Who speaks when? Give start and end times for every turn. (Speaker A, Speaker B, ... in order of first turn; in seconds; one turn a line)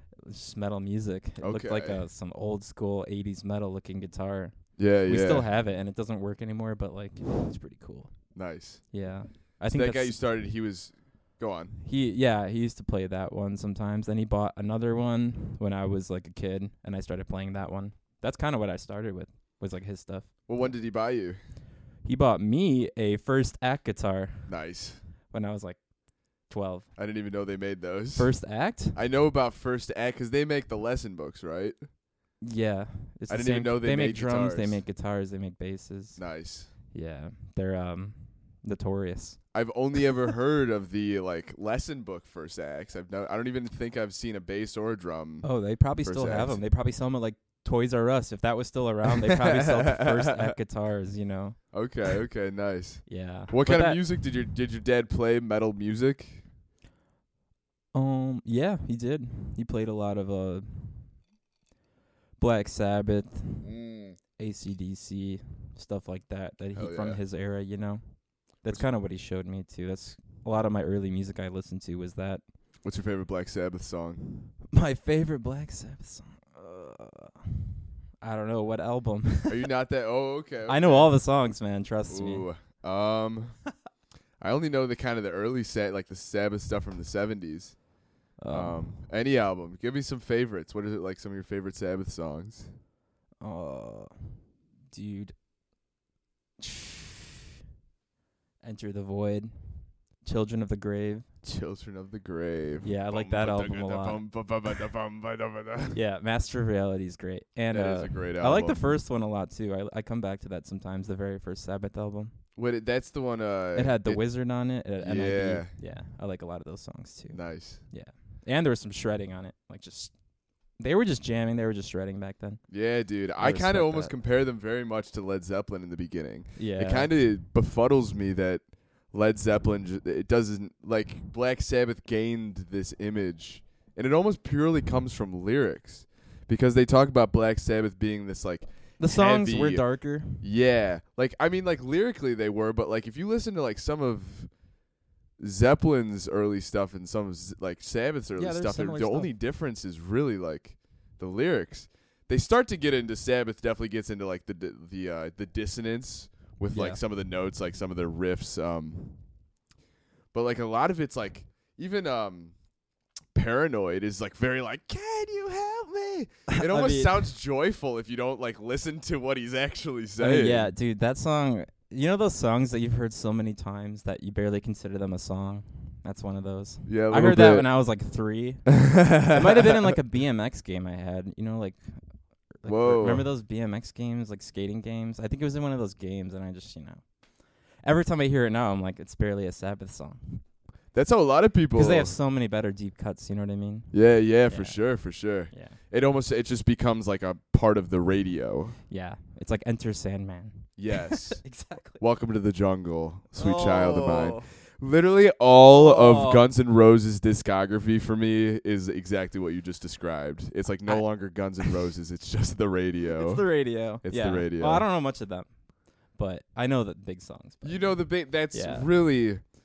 Speaker A: 0.3-8.1
Speaker B: 1.4-2.0
Speaker B: 4.8-5.4
Speaker B: 8.3-8.8
Speaker A: 8.9-10.2
Speaker B: 9.7-11.8
Speaker A: 11.8-20.3
Speaker B: 20.5-21.4
Speaker A: 22.0-24.5
Speaker B: 24.5-25.0
Speaker A: 25.3-25.8
Speaker A: 26.5-26.9
Speaker B: 27.0-28.3
Speaker A: 28.1-29.0
Speaker B: 28.9-31.8
Speaker A: 32.4-36.2
Speaker B: 33.3-34.8
Speaker B: 36.2-36.7
Speaker A: 36.9-39.4
Speaker B: 39.5-45.5
Speaker A: 45.4-51.6
Speaker B: 46.0-46.6
Speaker B: 49.1-50.5
Speaker B: 51.7-56.4
Speaker A: 53.1-54.1
Speaker A: 57.9-61.2
Speaker A: 62.4-63.7
Speaker B: 63.7-64.1
Speaker A: 64.4-72.4
Speaker B: 66.7-67.2
Speaker B: 72.8-74.5
Speaker A: 74.7-77.5
Speaker A: 78.2-79.5
Speaker B: 79.5-81.1
Speaker A: 80.7-82.5
Speaker B: 82.1-83.6
Speaker B: 84.4-87.8
Speaker A: 88.4-89.0
Speaker B: 88.5-92.7
Speaker A: 93.4-94.4
Speaker A: 94.9-95.3
Speaker A: 96.6-97.1
Speaker A: 98.6-101.2
Speaker B: 101.4-106.0
Speaker A: 102.8-104.2
Speaker A: 105.9-112.3
Speaker B: 107.7-108.9
Speaker B: 112.5-114.2
Speaker A: 113.8-120.1
Speaker B: 115.0-115.7
Speaker B: 117.3-117.8
Speaker A: 120.8-122.6
Speaker B: 122.7-144.5
Speaker A: 123.4-124.1
Speaker A: 126.6-127.1
Speaker A: 139.0-140.4
Speaker B: 145.4-159.2
Speaker A: 148.4-149.3
Speaker A: 156.7-157.0
Speaker B: 160.3-162.5
Speaker B: 163.3-170.7
Speaker A: 166.5-167.3
Speaker A: 170.2-187.2
Speaker B: 176.8-177.7
Speaker B: 178.7-179.9
Speaker B: 182.6-183.2
Speaker A: 187.8-190.4
Speaker B: 190.9-192.1
Speaker A: 191.7-193.9
Speaker B: 193.9-198.8
Speaker A: 194.5-194.8
Speaker A: 195.5-195.8
Speaker A: 198.9-202.0
Speaker B: 200.8-213.5
Speaker A: 203.3-204.5
Speaker A: 205.7-206.5
Speaker A: 213.2-215.5
Speaker B: 214.0-214.8
Speaker A: 216.1-218.0
Speaker B: 217.6-219.4
Speaker A: 218.5-218.9